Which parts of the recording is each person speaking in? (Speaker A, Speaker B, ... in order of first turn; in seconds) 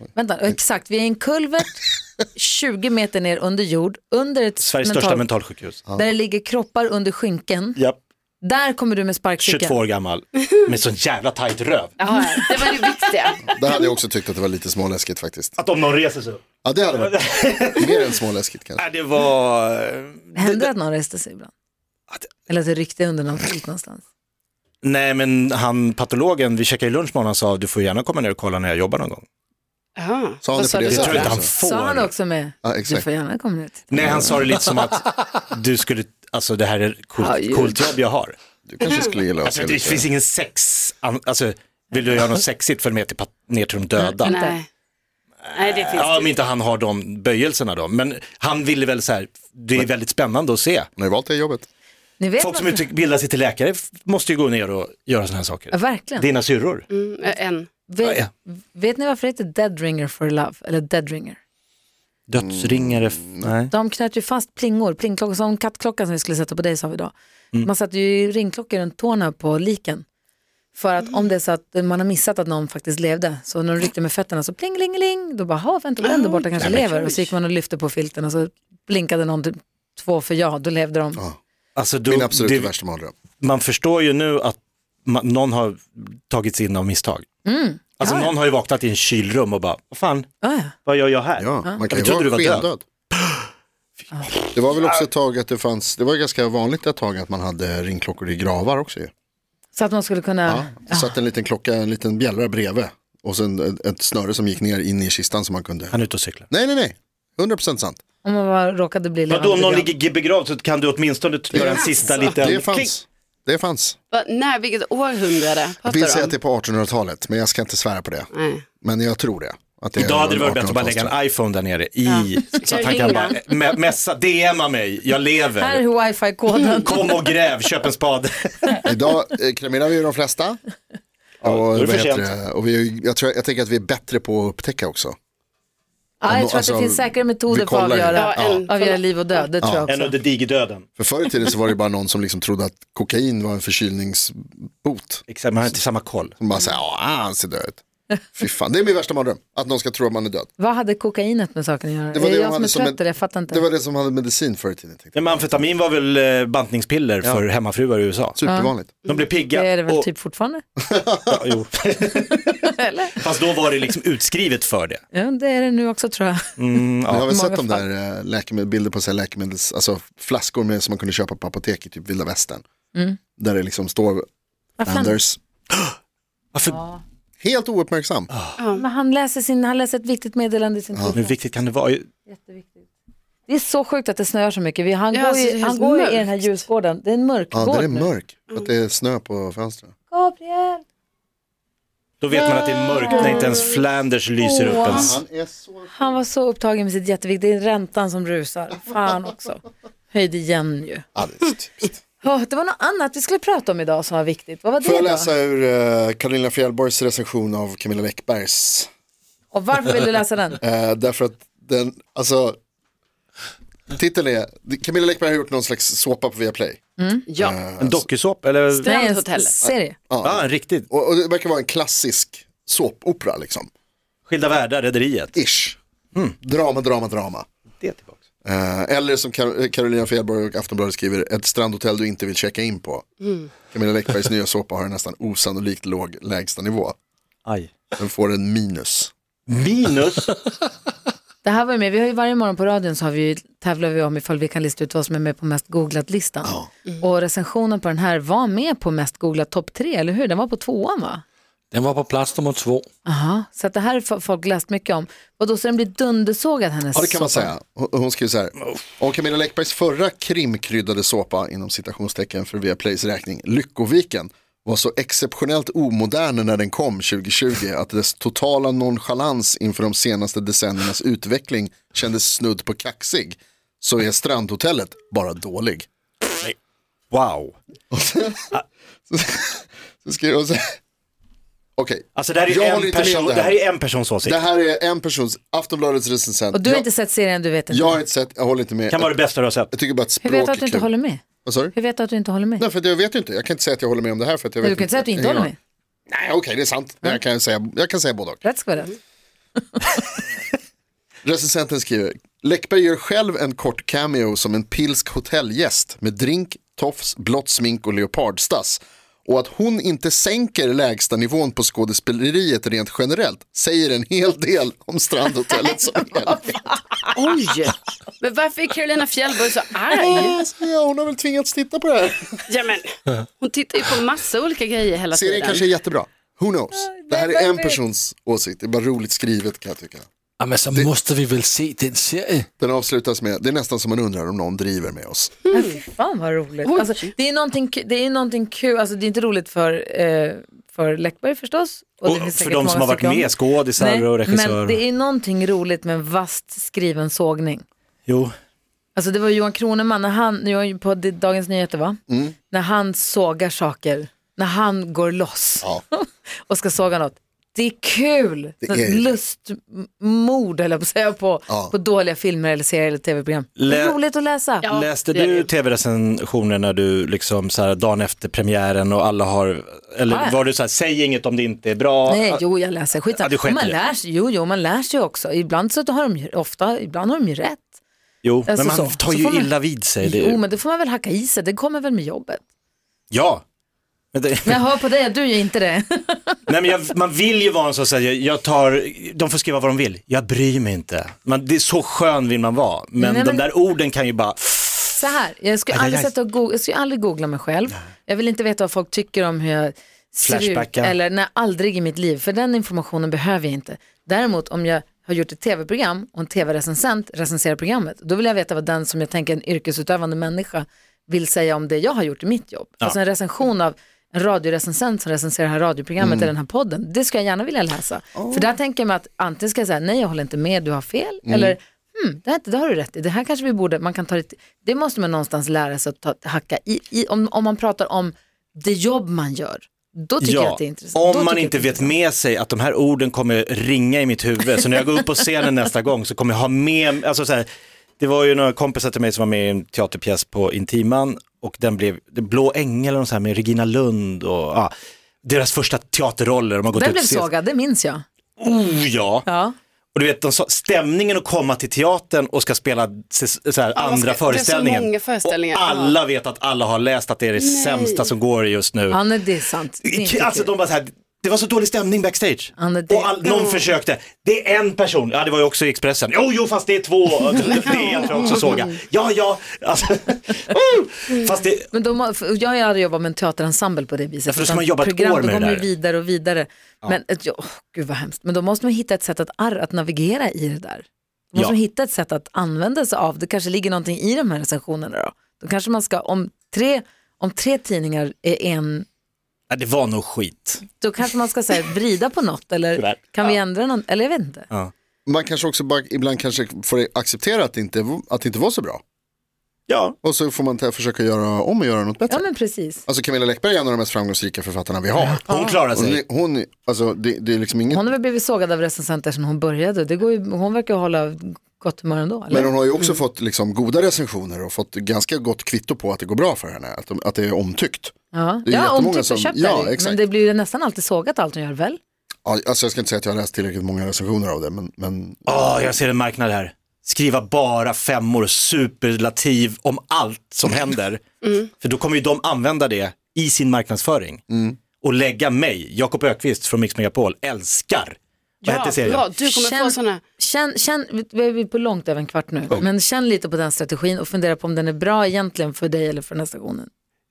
Speaker A: 0.1-5.3, 5.9-7.8, 8.4-9.8, 12.1-12.7, 20.4-21.5, 22.5-24.0, 31.5-34.2, 37.2-37.9, 44.0-44.6, 52.2-52.9, 55.7-56.2, 57.9-61.4, 63.7-70.0, 70.7-81.2, 87.4-88.3, 90.4-90.7, 99.7-101.1, 108.2-109.9, 125.5-127.2, 136.2-140.1, 150.6-153.6, 158.4-158.7, 159.5-160.6, 162.6-163.1, 165.1-166.6, 167.2-167.8, 174.8-175.2, 176.7-177.0, 178.7-181.4, 182.3-182.9, 183.5-188.1, 190.1-190.8, 192.9-193.7, 194.4-195.1, 195.9-201.1, 202.2-205.3, 209.5-210.6, 217.0-217.3, 218.8-220.0, 241.4-251.2, 253.0-257.5, 286.5-288.0, 290.2-292.6, 294.6-295.5, 298.4-299.0, 299.6-300.0, 316.3-317.2, 326.8-327.8, 335.5-347.6, 348.9-364.6, 370.1-370.4, 372.1-377.7, 378.5-379.5, 380.0-382.4, 384.4-386.4, 393.0-393.4, 395.0-431.9, 446.7-448.0, 449.2-449.5, 458.9-460.5, 462.6-463.1, 471.7-488.9, 490.8-494.5, 502.1-502.8, 505.0-505.5, 507.7-512.5, 518.1-521.8, 539.2-546.7
Speaker B: 4.6-5.8, 9.4-12.0, 15.6-18.1, 18.8-20.7, 24.8-29.2, 30.8-32.1, 33.9-38.3, 39.4-44.4, 45.5-50.9, 52.4-56.9, 58.0-58.3, 62.3-63.7, 76.6-76.8, 81.8-82.7, 83.4-87.2, 88.0-90.3, 90.8-92.7, 94.2-94.9, 105.9-106.5, 109.3-112.9, 119.9-125.8, 126.8-128.8, 131.4-132.3, 139.9-140.8, 145.3-146.3, 155.1-158.4, 159.1-160.1, 161.3-162.6, 163.1-165.0, 166.6-167.3, 176.5-176.8, 178.3-178.6, 181.1-182.1, 192.2-195.1, 217.8-218.9, 220.2-220.9, 224.3-225.4, 227.8-228.2, 237.4-237.7, 239.5-240.3, 277.1-277.5, 282.1-284.4, 288.9-289.7, 342.0-344.8, 348.1-348.3, 363.6-364.0, 364.7-372.4, 373.1-373.7, 378.2-380.4, 383.1-383.4, 384.1-384.6, 386.5-395.0, 395.7-396.1, 400.2-400.9, 430.2-437.4, 438.0-444.7, 445.2-447.3, 448.4-449.2, 449.9-459.0, 459.8-471.7, 474.3-475.7, 489.5-490.6, 492.8-493.4, 499.7-499.9, 505.2-506.0, 525.2-531.0, 531.6-534.2, 534.8-539.1
Speaker C: 12.0-13.5, 30.0-31.4, 44.2-44.6, 45.5-46.3, 56.9-57.7, 76.0-77.0, 111.6-112.2, 114.1-116.3, 118.3-118.6, 122.0-123.4, 138.1-139.4, 178.6-178.8, 185.1-186.6, 193.0-193.6, 194.8-195.1, 217.3-217.6, 218.7-219.6, 317.1-320.3, 322.5-325.7, 335.5-335.8, 336.6-337.1, 364.6-365.5, 453.8-455.9, 457.4-458.1, 463.3-463.6, 467.7-468.4, 531.2-531.5, 538.4-540.0
Speaker D: 13.5-15.6, 16.6-18.8, 30.4-31.5, 32.6-33.0, 38.6-40.1, 51.0-51.6, 62.4-63.5, 76.6-76.8, 82.0-83.1, 91.4-92.8, 94.5-99.1, 100.5-106.0, 106.5-108.0, 111.5-114.0, 115.8-118.3, 118.8-121.1, 128.8-130.6, 131.4-135.2, 136.3-138.6, 139.6-139.9, 141.0-145.2, 146.4-147.8, 148.3-150.5, 152.1-155.6, 158.4-158.9, 160.8-161.4, 167.1-172.6, 173.4-174.2, 174.8-175.4, 177.4-178.3, 187.5-189.9, 194.8-195.9, 201.2-202.0, 204.8-208.9, 210.6-212.6, 213.9-216.8, 217.4-218.1, 219.6-223.7, 225.3-225.8, 226.4-227.5, 228.4-233.1, 233.7-236.9, 238.0-239.1, 256.9-275.9, 277.9-278.5, 279.1-280.8, 281.8-283.6, 284.2-286.9, 287.7-289.2, 289.7-290.9, 291.4-291.7, 292.6-295.5, 296.1-298.4, 301.2-316.6, 319.9-322.4, 325.1-330.1, 332.6-335.3, 352.1-352.3, 358.6-359.2, 361.5-361.7, 416.0-416.3, 418.1-418.5, 421.2-421.6, 495.1-498.8, 500.0-502.3, 502.8-507.9, 512.3-517.9, 518.4-520.0, 522.2-525.5, 534.3-534.6
Speaker E: 251.7-252.8, 330.4-332.4